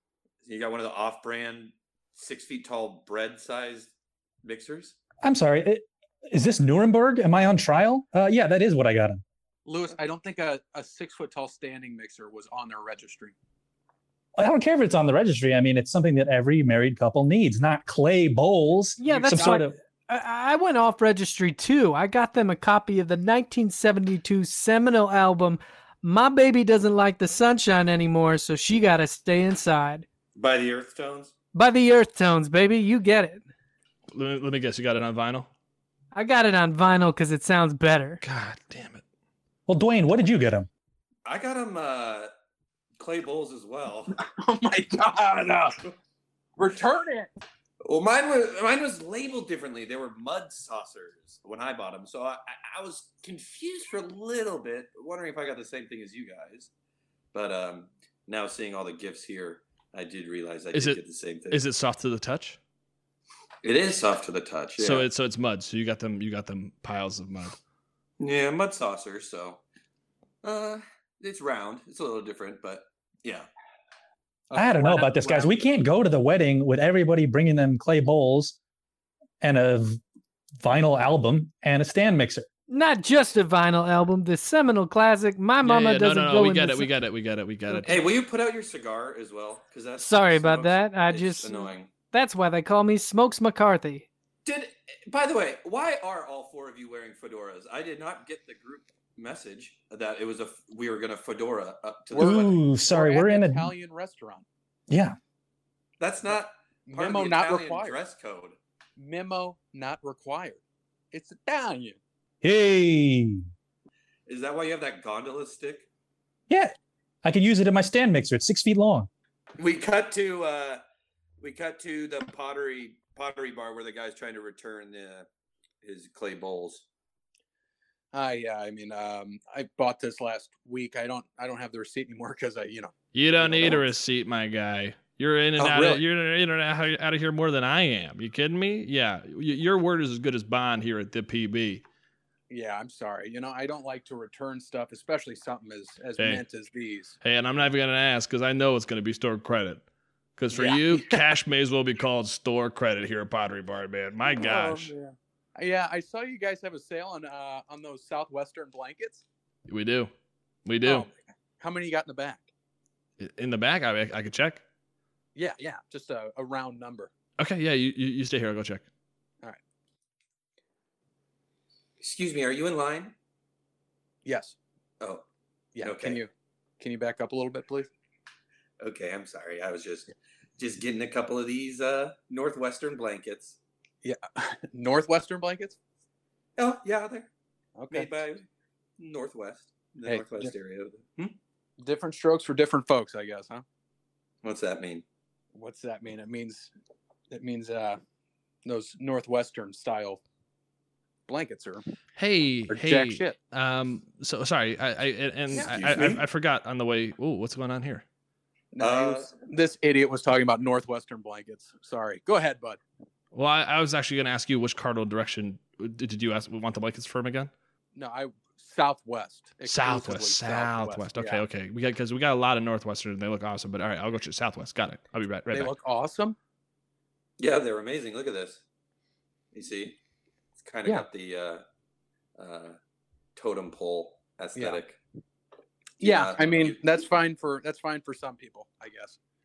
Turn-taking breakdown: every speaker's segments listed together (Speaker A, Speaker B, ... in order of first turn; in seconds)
Speaker A: 0.4-3.9, 4.4-5.0, 30.4-31.3, 41.3-42.3, 43.0-44.1, 47.9-56.7, 57.3-61.6, 63.6-65.1, 68.2-69.6, 70.4-73.5, 87.9-91.9, 94.5-102.6, 106.0-108.6, 114.3-115.9, 119.6-120.8, 121.4-125.3, 125.8-126.8, 135.6-136.0, 172.0-173.1, 175.8-176.2, 178.8-183.6, 186.6-187.3, 187.9-188.5, 189.0-191.4, 194.4-195.1, 205.5-206.2, 208.8-209.3, 227.4-228.6, 229.5-230.0, 230.6-231.6, 232.4-232.8, 233.4-235.0, 236.0-236.8
Speaker B: 5.2-9.2, 14.4-19.8, 39.7-40.7, 74.6-78.6, 79.4-80.0, 80.6-82.5, 102.2-103.7, 104.9-105.2, 112.4-113.4, 117.2-119.1
Speaker C: 9.7-13.3, 19.1-19.6, 44.2-45.8, 46.6-47.3, 74.5-75.6, 102.1-104.5, 106.3-108.0, 109.0-112.0, 128.1-133.9, 142.5-147.2, 150.5-151.3, 154.3-159.2, 160.8-162.5, 165.3-167.1, 174.2-174.6, 175.7-177.9, 184.0-185.8, 187.8-188.1, 190.1-190.6, 191.8-193.7, 195.5-196.7, 197.3-198.0, 198.7-200.2, 201.3-201.8, 202.7-203.4, 205.5-205.9, 208.7-212.8, 217.9-221.4, 225.5-226.4, 234.6-234.8, 236.0-239.2
Speaker D: 19.0-30.1, 31.5-33.4, 36.1-38.2, 82.7-86.9, 87.7-88.1, 90.0-94.1
Speaker E: 34.1-35.5, 38.2-39.0, 60.7-62.6, 64.8-67.6, 85.6-88.0, 133.1-141.8, 146.2-146.5, 147.2-149.8, 150.4-154.9, 159.7-160.1, 160.7-161.1, 163.2-164.6, 167.4-168.9, 202.2-208.1, 213.3-217.5, 219.6-225.8